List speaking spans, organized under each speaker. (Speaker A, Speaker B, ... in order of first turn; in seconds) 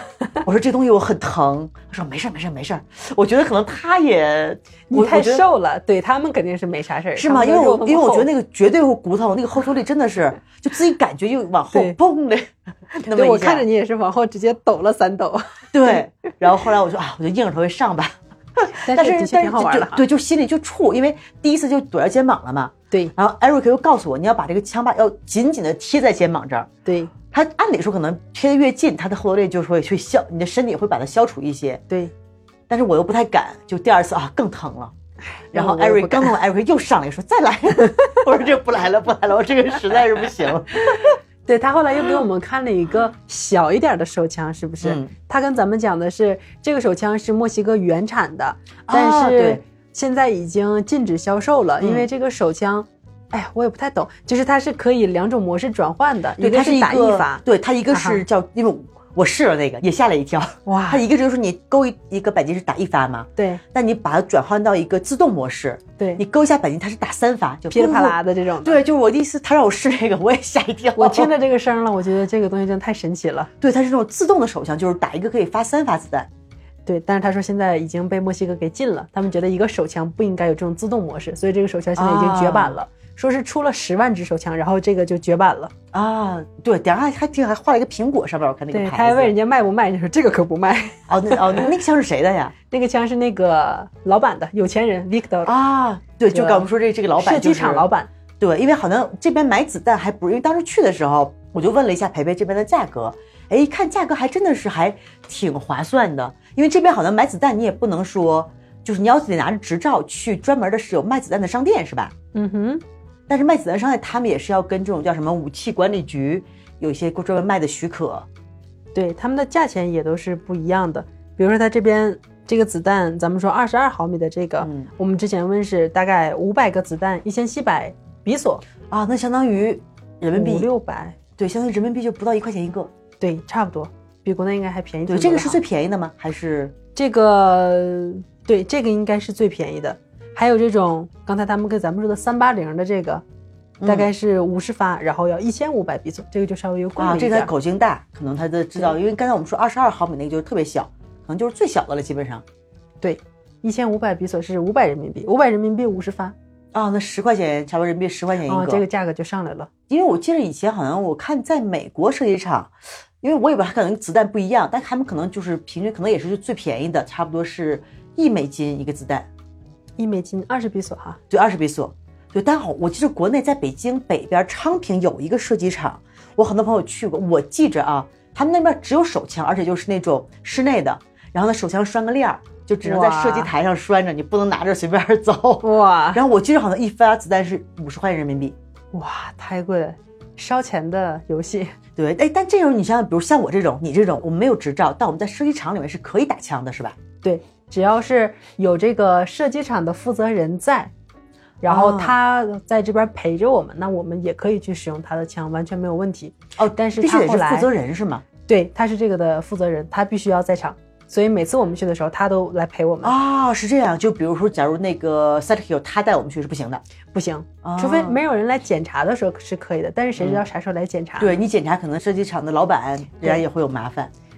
Speaker A: 0.4-5.5, 7.2-13.7, 15.7-26.7, 27.3-31.8, 32.7-34.9, 35.5-41.1, 44.8-45.1, 48.9-49.6, 51.8-52.1, 56.4-71.3, 73.6-76.3, 82.0-82.8, 85.9-89.3, 91.1-92.5, 95.5-97.8, 98.4-112.1, 113.3-118.3, 124.6-124.9, 128.9-130.7, 131.4-132.9, 135.1-136.8, 143.8-144.1, 147.0-152.4, 156.7-158.8, 159.9-169.3, 171.3-188.6, 192.0-197.0, 201.7-202.2, 206.6-208.3, 213.0-216.8, 217.6-218.2, 220.2-220.4, 221.2-224.1
Speaker B: 4.9-8.3, 11.7-12.0, 13.1-16.0, 18.8-20.0, 26.9-27.1, 35.4-36.4, 40.8-58.2, 60.7-61.0, 63.4-63.6, 67.7-68.8, 71.0-73.5, 76.9-85.7, 88.7-91.7, 92.7-95.5, 96.3-96.7, 97.2-98.1, 112.3-112.8, 119.0-128.6, 130.3-131.2, 133.2-135.6, 136.9-143.2, 143.8-147.5, 153.0-156.3, 158.5-159.7, 170.0-171.2, 182.8-183.5, 185.6-186.2, 188.9-191.7, 197.2-200.9, 201.6-207.7, 208.5-213.2, 217.1-221.4